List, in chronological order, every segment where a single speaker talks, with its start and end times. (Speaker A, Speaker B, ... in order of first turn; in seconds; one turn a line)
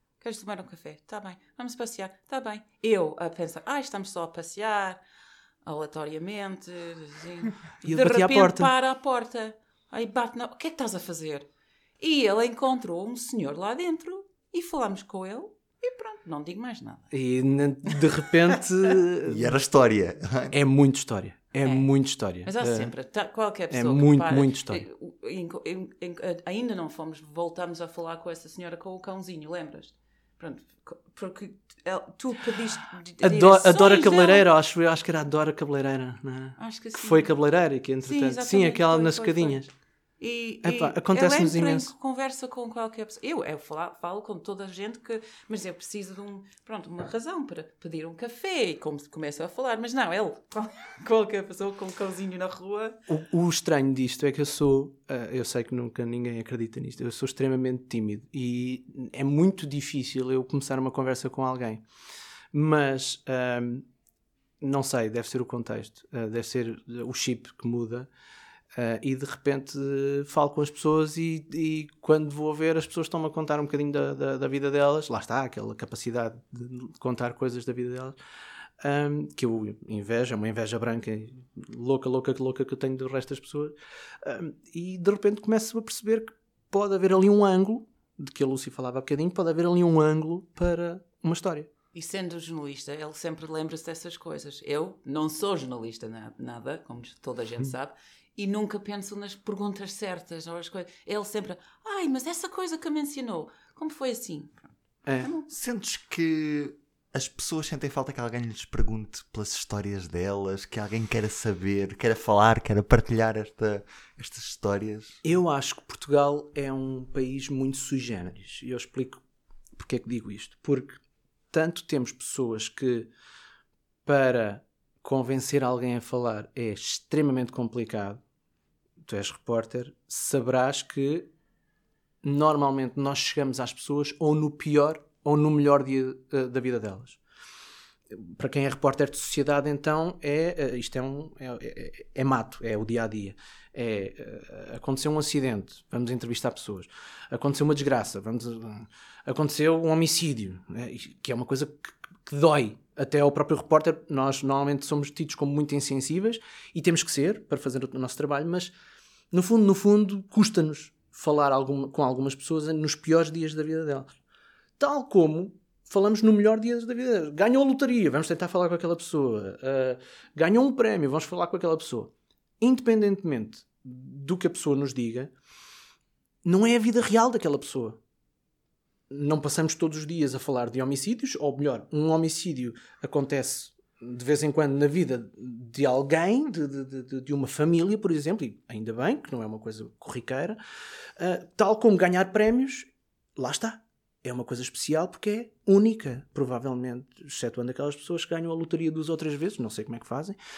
Speaker A: 0.2-5.0
Speaker A: 5.6-11.5
Speaker B: 7.8-8.7
Speaker A: 12.0-17.1
Speaker B: 17.1-19.6
Speaker C: 19.3-20.6
Speaker B: 20.5-22.9
Speaker A: 21.6-21.9
Speaker A: 22.4-34.5
Speaker B: 23.7-24.8
Speaker B: 33.2-39.7
Speaker A: 36.6-37.3
Speaker A: 38.0-39.7
Speaker A: 40.2-53.0
Speaker B: 40.6-41.9
Speaker B: 53.1-61.8
Speaker B: 62.5-63.9
Speaker B: 64.6-68.1
Speaker B: 68.8-78.2
Speaker B: 78.8-91.7
Speaker A: 91.9-105.5
Speaker C: 105.5-115.2
Speaker B: 115.2-119.2
Speaker B: 119.8-121.0
Speaker B: 121.5-123.1
Speaker B: 124.1-128.2
Speaker B: 129.1-131.3
Speaker B: 132.2-137.2
Speaker B: 138.1-158.7
Speaker B: 159.3-164.1
Speaker B: 164.8-175.3
Speaker B: 176.4-178.0
Speaker B: 179.1-190.6
Speaker B: 191.2-200.4